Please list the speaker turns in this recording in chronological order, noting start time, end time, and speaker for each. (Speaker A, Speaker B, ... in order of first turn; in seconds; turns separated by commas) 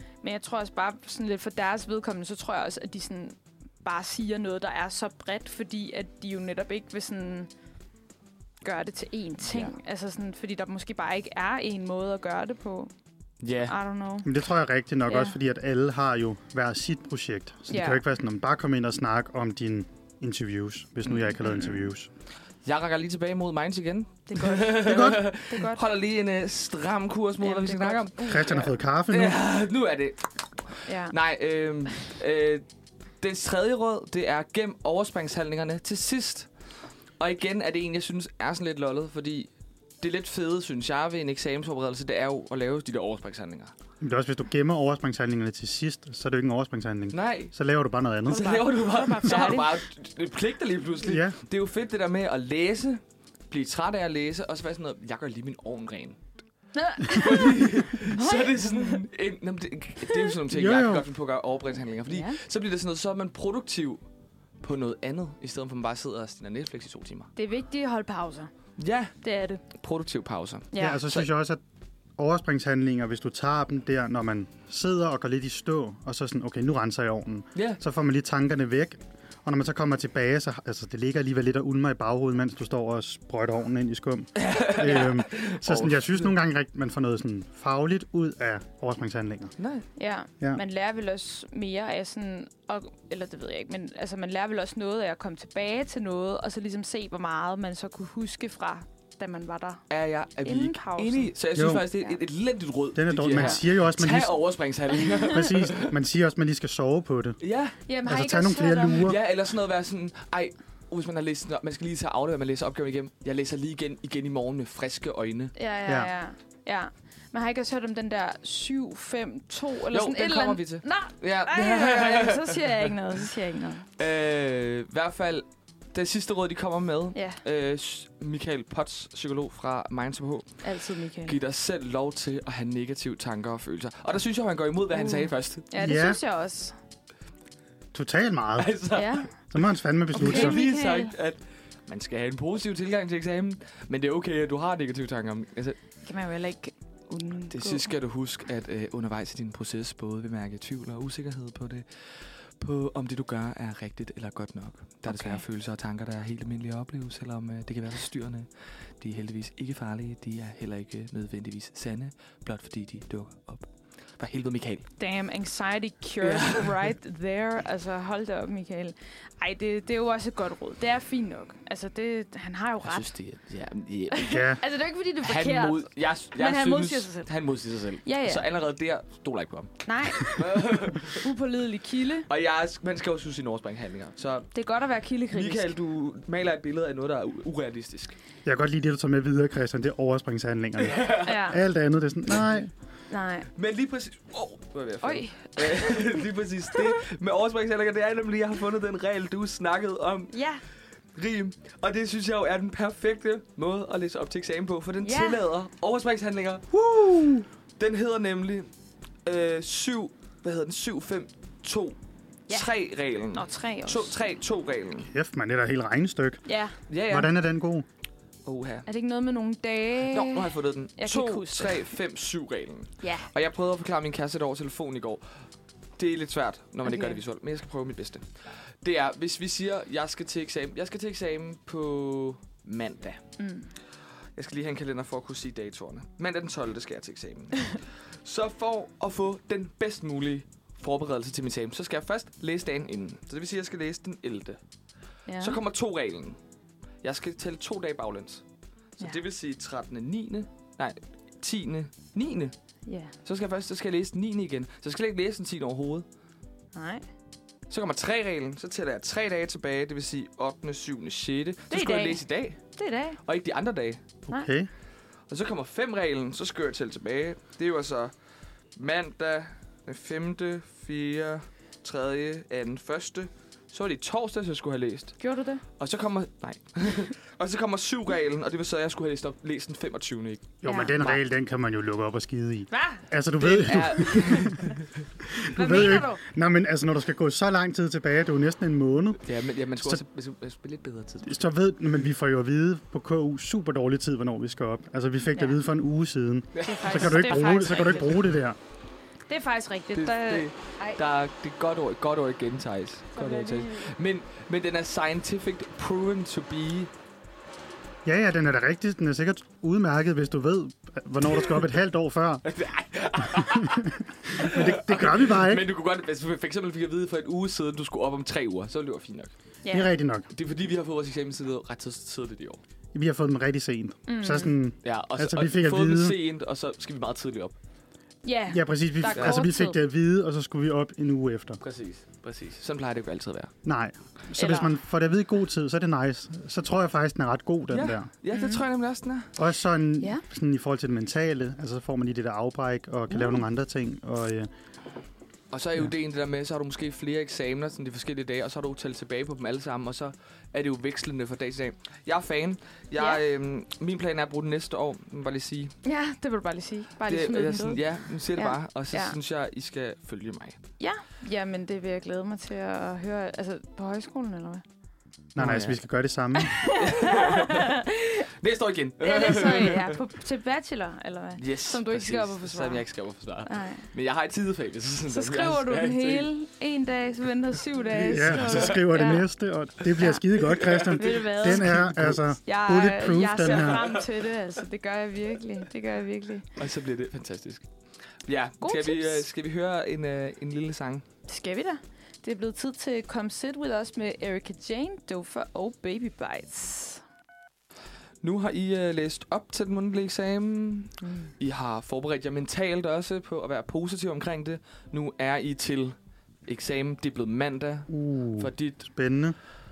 Speaker A: 0.2-7.5, Speaker A: 8.6-12.9, Speaker B: 13.4-13.7, Speaker A: 13.7-14.3, Speaker C: 14.2-22.1, Speaker A: 15.1-15.3, Speaker A: 17.7-18.0, Speaker B: 22.6-32.6, Speaker A: 24.3-25.8, Speaker C: 24.8-25.3, Speaker A: 27.4-28.7, Speaker C: 28.3-29.4, Speaker A: 30.9-31.1, Speaker B: 33.2-36.5, Speaker B: 37.2-39.5, Speaker B: 40.0-43.7, Speaker C: 44.0-48.5, Speaker B: 47.1-47.5, Speaker A: 48.3-49.8, Speaker B: 48.3-56.2, Speaker C: 51.0-51.4, Speaker A: 56.7-59.0, Speaker B: 57.0-64.0, Speaker C: 60.5-61.1, Speaker A: 62.1-62.4, Speaker B: 64.6-67.3, Speaker A: 67.4-68.5, Speaker B: 68.8-69.2, Speaker A: 69.2-69.6, Speaker B: 69.7-71.3, Speaker A: 70.7-71.1, Speaker C: 70.8-71.6, Speaker C: 72.2-89.5, Speaker B: 77.5-77.8, Speaker B: 84.4-86.3, Speaker B: 89.6-89.9, Speaker A: 90.0-99.8, Speaker B: 99.9-106.0, Speaker A: 100.4-101.3, Speaker C: 101.5-101.9, Speaker C: 102.9-104.4, Speaker A: 103.3-103.6, Speaker A: 105.0-105.3, Speaker C: 105.3-107.4, Speaker B: 107.4-107.8, Speaker A: 107.9-109.1, Speaker C: 108.0-109.2, Speaker B: 109.0-115.5, Speaker A: 115.5-123.9, Speaker B: 119.9-122.9, Speaker B: 124.0-130.6, Speaker A: 127.1-127.4, Speaker A: 130.6-131.4, Speaker B: 131.2-135.7, Speaker A: 134.9-136.7, Speaker C: 135.8-136.2, Speaker C: 137.9-138.7, Speaker B: 138.6-139.2, Speaker A: 138.9-139.3, Speaker C: 139.5-140.6, Speaker A: 140.1-141.1, Speaker B: 140.1-145.8, Speaker A: 146.0-147.9, Speaker B: 147.5-164.9, Speaker A: 155.1-155.4, Speaker A: 165.0-173.1, Speaker B: 166.2-166.7, Speaker B: 172.8-174.5, Speaker A: 174.1-177.3, Speaker C: 174.3-174.6, Speaker B: 175.2-181.2, Speaker A: 178.0-178.4, Speaker A: 179.8-182.3, Speaker B: 182.3-184.5, Speaker A: 184.5-185.7, Speaker B: 185.3-188.1, Speaker C: 188.4-192.7, Speaker B: 190.8-191.4, Speaker A: 191.2-191.6, Speaker A: 193.1-193.5, Speaker B: 193.6-200.3, Speaker A: 195.0-196.3, Speaker A: 200.3-200.6, Speaker B: 201.1-208.7, Speaker A: 205.0-205.4, Speaker B: 209.3-212.0, Speaker B: 212.5-215.1, Speaker A: 213.3-214.1, Speaker C: 215.1-216.4, Speaker A: 216.4-216.8, Speaker B: 216.9-217.3, Speaker C: 217.1-217.9, Speaker B: 218.4-218.9, Speaker A: 218.9-221.9, Speaker B: 220.1-225.2, Speaker A: 223.0-223.3, Speaker B: 226.0-233.2, Speaker A: 226.8-227.2, Speaker A: 233.4-233.7, Speaker B: 234.4-244.6, Speaker A: 245.3-245.6, Speaker B: 245.4-246.4, Speaker B: 247.0-248.4, Speaker B: 249.0-252.5, Speaker A: 252.9-253.1, Speaker B: 253.2-256.1, Speaker A: 256.7-257.0, Speaker B: 257.7-262.6, Speaker A: 261.7-263.2, Speaker B: 263.2-264.0, Speaker C: 264.3-264.7, Speaker B: 265.3-268.1, Speaker B: 268.8-275.2, Speaker A: 275.2-275.6, Speaker B: 275.8-281.2, Speaker C: 280.6-284.6, Speaker A: 280.6-281.0, Speaker A: 282.7-283.0, Speaker B: 283.4-284.9, Speaker A: 283.9-284.7, Speaker C: 285.2-289.2, Speaker A: 285.4-286.2, Speaker B: 289.2-291.4, Speaker C: 291.2-298.6, Speaker A: 295.3-295.6, Speaker B: 296.5-298.2, Speaker A: 296.6-298.1, Speaker A: 299.3-301.0, Speaker B: 299.9-306.9, Speaker A: 303.1-303.9, Speaker C: 308.1-312.4, Speaker B: 312.4-319.3, Speaker C: 313.4-315.6, Speaker A: 319.6-319.9, Speaker C: 319.7-320.3, Speaker B: 320.3-322.6, Speaker C: 322.9-326.2, Speaker A: 324.1-324.6, Speaker B: 324.8-327.6, Speaker A: 328.2-329.8, Speaker C: 328.5-331.6, Speaker B: 329.1-329.4, Speaker B: 331.6-333.5, Speaker C: 333.6-338.1, Speaker A: 334.4-334.7, Speaker B: 337.7-339.3, Speaker A: 338.3-338.6, Speaker C: 339.4-344.5, Speaker B: 345.5-355.7, Speaker A: 353.0-353.2, Speaker A: 355.8-359.1, Speaker B: 357.1-360.6, Speaker A: 360.8-364.6, Speaker C: 365.3-366.6, Speaker B: 365.4-365.8, Speaker A: 366.4-368.3, Speaker B: 366.7-370.0, Speaker A: 369.0-372.8, Speaker B: 371.4-376.3, Speaker A: 373.4-373.9, Speaker A: 375.1-379.3, Speaker B: 377.9-378.8, Speaker C: 378.1-383.9, Speaker B: 380.4-382.2, Speaker A: 380.9-381.8, Speaker A: 382.4-386.5, Speaker B: 383.4-384.1, Speaker B: 386.6-387.6, Speaker B: 388.2-391.1, Speaker A: 388.6-389.2, Speaker A: 391.3-397.0, Speaker B: 398.2-408.9, Speaker A: 401.0-401.3, Speaker C: 407.9-409.3